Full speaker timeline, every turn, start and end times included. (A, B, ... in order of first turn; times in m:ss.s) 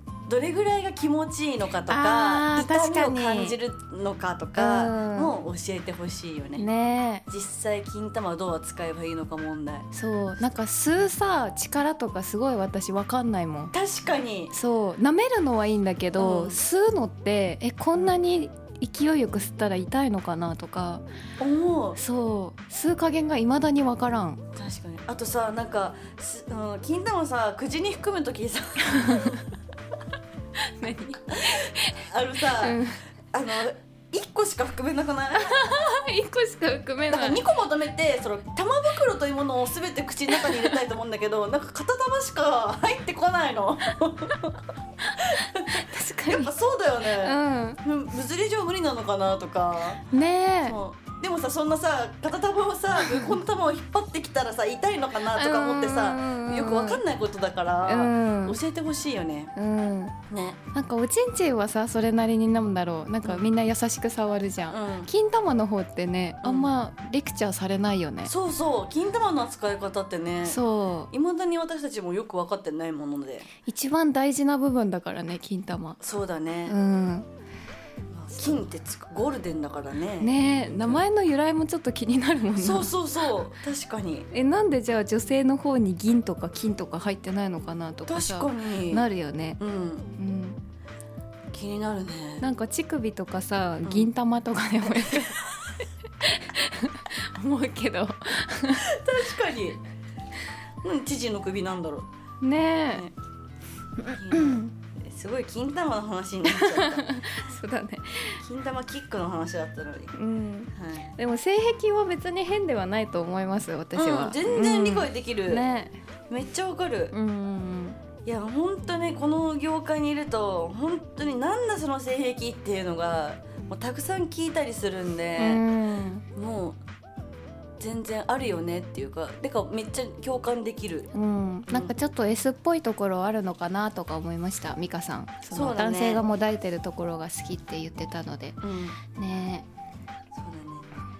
0:00.2-0:06.6 A
0:01.9-0:03.6 B
0:04.6-0:05.3 B
0:06.6-0:07.2 B
0:07.3-0:09.9 A
0:09.9-0:13.7 B
0:13.7-0:14.5 A
0:14.5-0:21.0 B
0:16.2-0:16.6 A
0:21.4-0:22.0 A
0:22.0-0:24.4 B
0:24.5-0:29.6 A
0:28.8-0:29.4 B
0:30.8-0:33.0 B
0:31.3-0:32.8 A
0:33.3-0:36.0 A
0:35.3-0:37.4 B
0:37.1-0:50.0 A
0:40.4-0:40.6 B
0:45.1-0:46.5 B
0:47.2-0:47.8 B
0:50.1-0:50.8 B
0:50.6-0:59.5 A
0:53.0-0:53.4 B
0:55.3-0:57.0 B
0:57.8-0:58.6 B
0:59.6-1:00.2 B
1:00.3-1:00.6 A
1:00.7-1:08.3 B
1:04.7-1:05.1 A
1:06.4-1:06.7 A
1:08.2-1:10.6 A
1:10.4-1:11.1 B
1:11.1-1:13.5 A
1:13.6-1:16.0 B
1:16.0-1:16.8 A
1:16.7-1:17.3 B
1:18.1-1:21.0 A
1:20.2-1:22.9 B
1:22.6-1:24.3 A
1:24.3-1:29.6 B
1:28.1-1:29.1 A
1:29.6-1:30.1 A
1:30.2-1:30.6 B
1:31.5-1:32.4 A
1:32.4-1:35.5 B
1:33.8-1:34.1 A
1:35.0-1:35.3 A
1:36.2-1:39.0 B
1:38.8-1:39.8 A
1:40.8-1:42.1 A
1:42.4-1:43.0 B
1:44.0-1:44.7 B
1:44.0-1:47.2 A
1:46.4-1:48.4 B
1:48.4-1:50.1 A
1:50.1-1:55.9 B
1:50.7-1:51.1 A
1:53.9-1:55.6 A
1:56.3-1:57.1 A
1:57.1-1:58.0 B
1:58.2-2:05.6 A
2:05.4-2:06.2 B
2:06.3-2:06.8 A
2:07.8-2:11.1 A
2:11.1-2:19.6 B
2:11.7-2:11.9 A
2:15.5-2:16.2 A
2:18.6-2:19.0 A
2:20.3-2:20.9 A